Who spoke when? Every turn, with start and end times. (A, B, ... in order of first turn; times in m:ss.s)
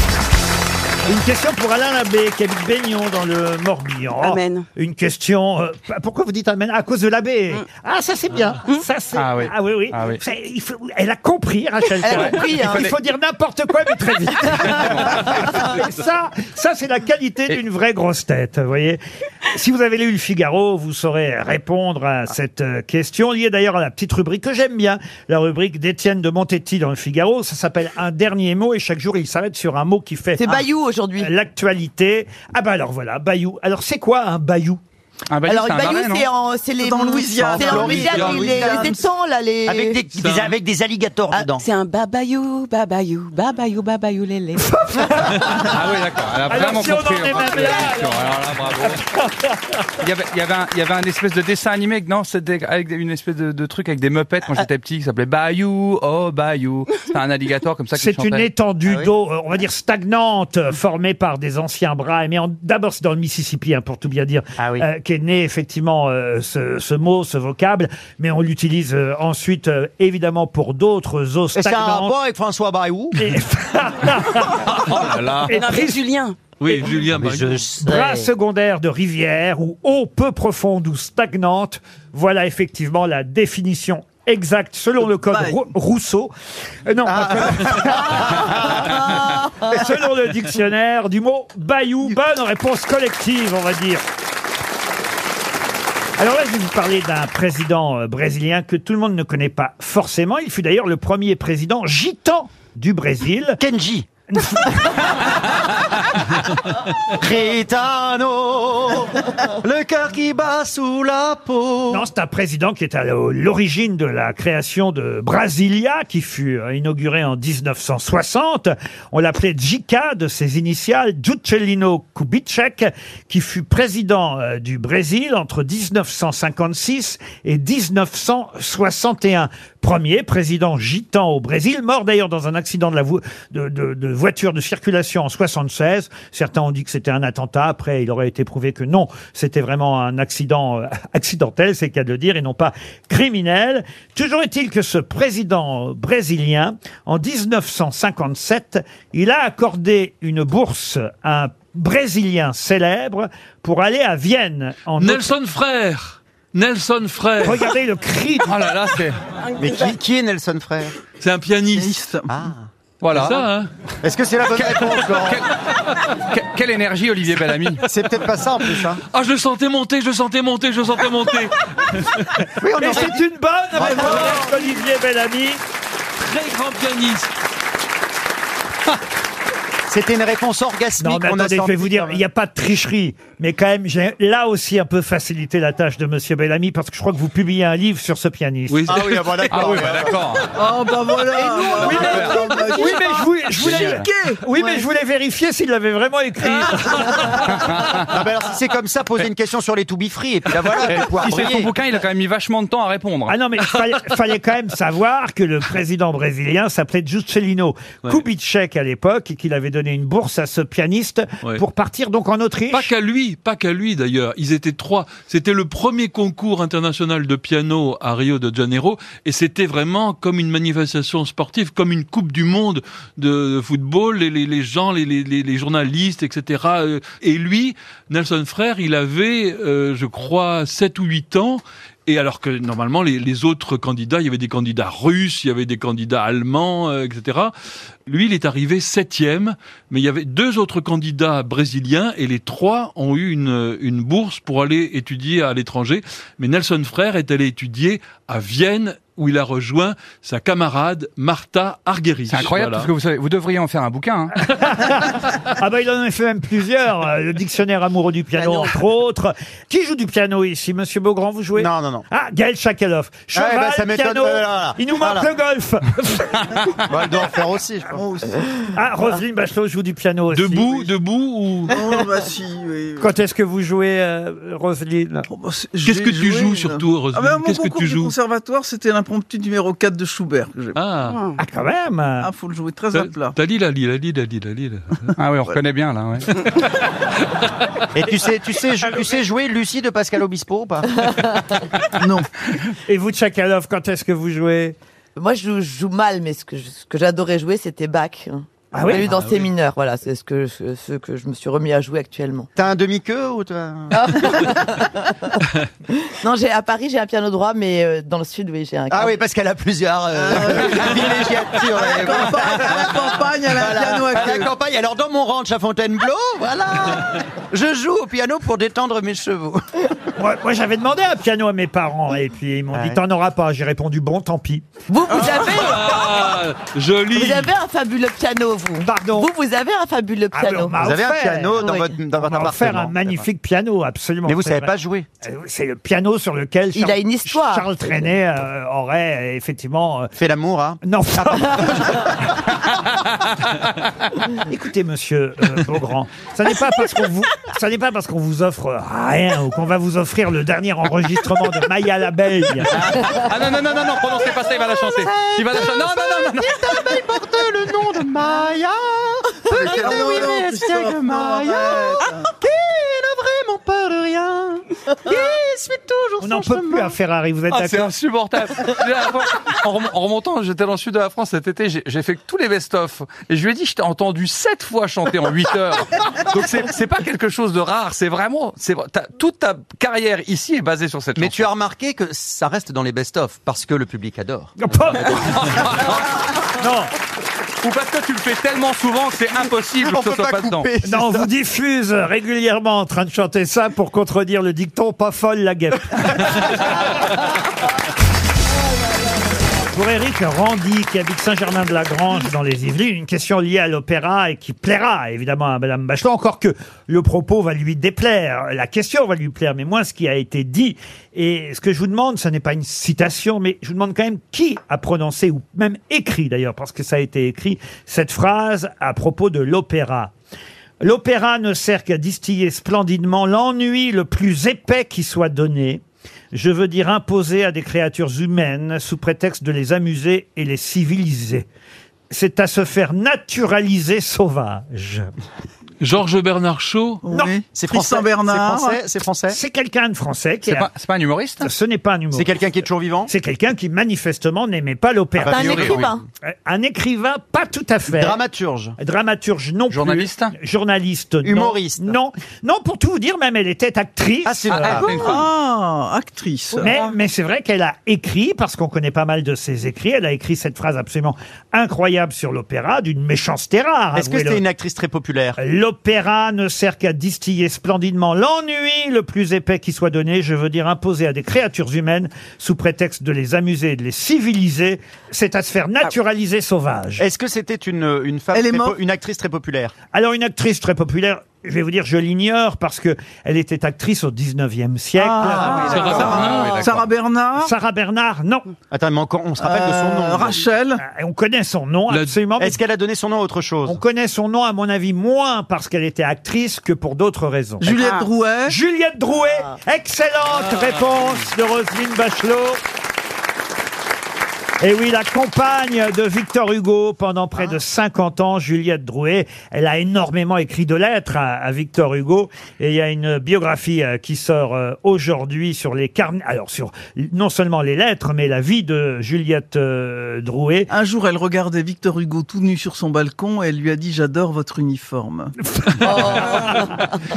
0:01.1-0:30.5 A
0:04.2-0:04.7 B
0:09.2-0:10.2 C
0:12.0-0:12.9 D
0:12.1-0:12.9 C
0:14.7-0:15.0 C
0:30.4-0:31.3 D
0:31.2-0:34.8 A
0:35.3-0:36.3 C
0:35.4-0:40.1 D
0:36.8-0:39.0 E
0:37.4-0:39.0 F
0:39.6-0:41.6 F
0:40.2-0:40.5 G
0:41.6-0:44.9 B
0:44.8-0:45.7 A
0:45.6-0:49.0 C
0:46.5-0:49.6 A
0:50.0-0:58.5 C
0:58.0-1:12.2 A
0:58.8-0:59.1 F
1:04.6-1:04.9 F
1:11.6-1:13.3 F
1:13.2-1:14.9 A
1:14.9-1:15.5 C
1:15.1-1:16.5 B
1:15.5-1:16.0 A
1:16.6-1:17.7 G
1:17.1-1:17.9 F
1:17.8-1:26.3 A
1:17.9-1:18.3 D
1:25.2-1:25.7 E
1:26.8-1:28.9 A
1:27.0-1:29.1 F
1:29.6-1:34.0 A
1:36.2-1:43.6 A
1:43.6-1:44.1 F
1:44.3-1:45.0 A
1:47.1-1:52.0 F
1:51.9-2:35.3 A
2:35.0-2:37.7 G
2:37.4-2:38.6 A
2:38.5-2:39.2 C
2:39.6-2:40.9 F
2:41.2-2:42.0 G
2:41.7-2:42.3 E
2:42.3-2:43.3 F
2:43.0-2:43.4 C
2:43.1-2:43.7 G
2:44.0-2:45.4 F
2:44.5-2:45.5 C
2:46.2-2:47.8 C
2:47.8-2:49.0 F
2:49.1-2:52.5 G
2:52.6-2:53.2 F
2:52.8-2:55.6 A
2:53.8-2:54.4 F
2:53.8-2:54.4 E
2:54.0-2:54.4 G
2:56.2-2:57.3 G
2:59.9-3:02.2 F
3:01.0-3:09.0 A
3:08.7-3:09.9 G
3:08.9-3:10.2 F
3:09.5-3:10.5 C
3:10.6-3:14.7 E
3:11.6-3:17.4 A
3:11.6-3:12.4 C
3:13.6-3:14.0 C
3:17.5-3:18.1 C
3:18.0-3:21.7 F
3:20.6-3:23.4 C
3:23.3-3:32.9 A
3:32.7-3:57.5 G
3:58.1-4:12.9 G
4:12.3-4:14.3 C
4:14.5-4:26.5 A
4:18.4-4:18.8 F
4:21.6-4:22.1 F
4:23.3-4:25.3 F
4:26.9-4:28.0 F
4:27.9-4:28.6 E
4:28.7-4:30.9 A
4:30.3-4:31.8 G
4:31.7-4:33.1 E
4:33.0-4:35.3 A
4:35.3-4:40.8 E
4:35.8-4:38.1 G
4:40.8-4:41.2 G
4:41.1-4:41.4 B
4:41.4-4:42.3 A
4:42.2-4:43.4 E
4:42.9-4:45.1 G
4:45.2-4:46.4 C
4:48.0-4:51.1 F
4:52.0-4:52.3 E
4:52.9-4:54.8 A
4:55.2-5:02.5 D
4:58.7-4:59.1 A
5:02.6-5:04.5 F
5:04.0-5:05.4 D
5:06.0-5:09.2 D
5:08.9-5:19.9 F
5:10.1-5:14.5 E
5:20.2-5:24.6 A
5:22.7-5:23.0 F
5:24.9-5:26.3 D
5:25.1-5:27.5 G
5:27.1-5:30.8 D
5:28.8-5:29.3 A
5:30.3-5:34.7 A
5:30.8-5:33.3 F
5:34.2-5:35.1 F
5:35.2-5:40.1 A
5:36.8-5:38.1 D
5:40.2-5:42.3 F
5:40.8-5:42.1 A
5:44.5-5:52.8 A
5:52.7-5:56.8 C
5:54.8-6:07.0 F
5:59.5-6:02.3 E
6:06.2-6:07.9 A
6:07.5-6:21.5 C
6:21.2-6:24.6 F
6:24.6-6:25.2 A
6:25.1-6:26.1 C
6:26.6-6:26.9 A
6:27.6-6:30.7 C
6:29.8-6:31.3 F
6:30.8-6:36.7 A
6:39.7-7:00.1 A
7:00.8-7:11.5 A
7:12.1-7:15.1 A
7:15.8-7:17.0 G
7:17.0-7:18.8 E
7:17.5-7:19.4 F
7:19.3-7:20.7 A
7:20.4-7:21.5 C
7:21.4-7:22.4 A
7:22.1-7:23.1 F
7:23.1-7:28.2 A
7:25.2-7:26.1 F
7:25.2-7:26.0 D
7:27.9-7:28.8 F
7:28.8-7:34.9 A
7:29.7-7:30.4 C
7:31.2-7:32.0 F
7:34.2-7:35.2 F
7:34.5-7:35.2 C
7:34.9-7:36.8 E
7:36.6-7:44.4 A
7:44.0-7:45.4 F
7:45.4-7:57.0 A
7:57.0-7:59.7 F
7:58.3-7:58.8 E
7:59.9-8:06.1 A
8:05.0-8:07.5 E
8:05.3-8:06.4 F
8:05.6-8:06.8 G
8:06.3-8:06.8 C
8:07.4-8:08.5 A
8:08.7-8:10.5 F
8:09.4-8:10.8 E
8:10.8-8:12.6 A
8:11.9-8:12.2 G
8:12.4-8:13.8 F
8:13.6-8:17.9 A
8:17.6-8:18.6 E
8:17.8-8:18.1 B
8:18.5-8:22.6 A
8:20.5-8:20.8 G
8:24.6-8:40.7 A
8:40.7-8:45.3 E
8:45.7-8:46.7 G
8:45.8-8:46.8 D